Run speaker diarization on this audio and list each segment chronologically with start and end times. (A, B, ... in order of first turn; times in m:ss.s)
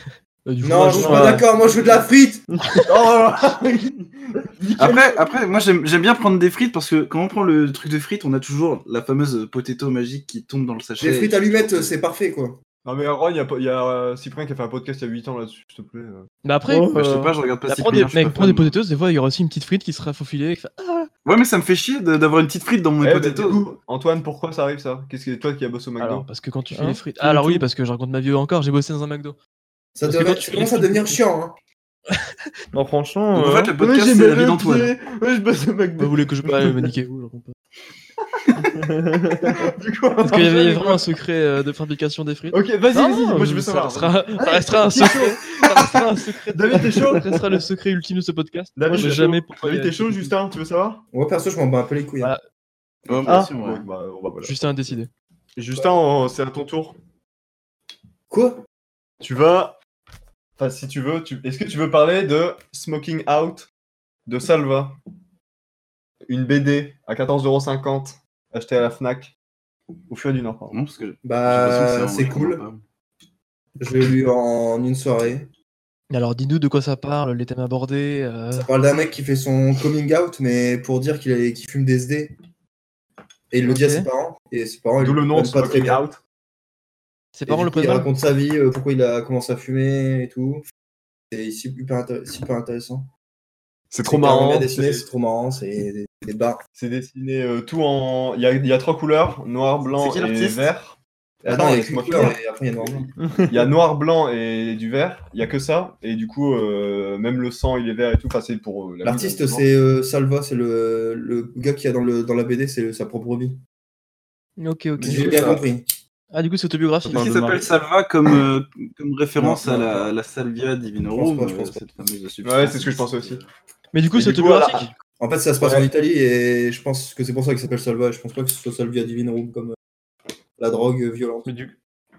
0:00.5-0:01.5 A
0:00.6-0:02.4 B
0:01.0-0:01.4 C
0:02.5-0:02.8 C
0:02.9-0:05.2 D
0:04.8-0:11.9 E
0:11.0-0:12.6 B
0:12.8-0:16.3 D
0:16.4-0:17.0 A
0:16.7-0:17.3 C
0:16.9-0:18.8 E
0:17.7-0:21.1 A
0:21.2-0:23.6 E
0:23.0-0:26.3 D
0:26.0-0:29.4 A
0:26.7-0:27.6 C
0:30.0-0:31.6 B
0:30.0-0:31.2 A
0:32.7-0:33.7 C
0:33.3-0:34.9 E
0:33.8-0:36.5 D
0:36.0-0:37.5 A
0:38.4-0:38.7 D
0:38.6-0:39.6 C
0:39.4-0:41.1 D
0:40.2-0:50.3 A
0:42.5-0:47.3 D
0:48.8-0:51.0 D
0:51.1-0:52.3 B
0:53.1-0:53.9 E
0:53.1-0:54.6 D
0:54.4-0:55.1 A
0:55.6-0:57.0 D
0:58.3-0:58.6 B
0:59.2-0:59.8 D
1:00.6-1:03.7 D
1:04.3-1:05.0 D
1:06.3-1:09.3 D
1:10.1-1:10.8 D
1:10.7-1:12.8 E
1:11.2-1:12.6 B
1:13.8-1:15.5 B
1:16.1-1:18.7 A
1:18.5-1:22.4 B
1:23.5-1:26.0 B
1:23.7-1:24.1 A
1:25.0-1:26.2 D
1:27.4-1:28.1 A
1:27.5-1:30.6 B
1:31.3-1:33.1 B
1:33.9-1:35.0 D
1:34.0-1:36.6 B
1:36.8-1:49.7 D
1:40.0-1:40.7 E
1:41.4-1:43.1 B
1:43.2-1:43.7 C
1:49.0-1:53.6 B
1:54.6-1:55.6 A
1:55.0-1:55.6 C
1:55.0-1:55.8 B
1:56.3-1:57.4 A
1:57.0-1:57.7 C
1:57.1-2:03.5 E
1:59.4-2:00.1 B
2:01.1-2:01.8 B
2:02.4-2:03.4 D
2:03.9-2:04.9 A
2:04.1-2:04.9 D
2:05.2-2:09.8 B
2:05.6-2:05.9 D
2:10.6-2:11.5 B
2:11.4-2:11.8 C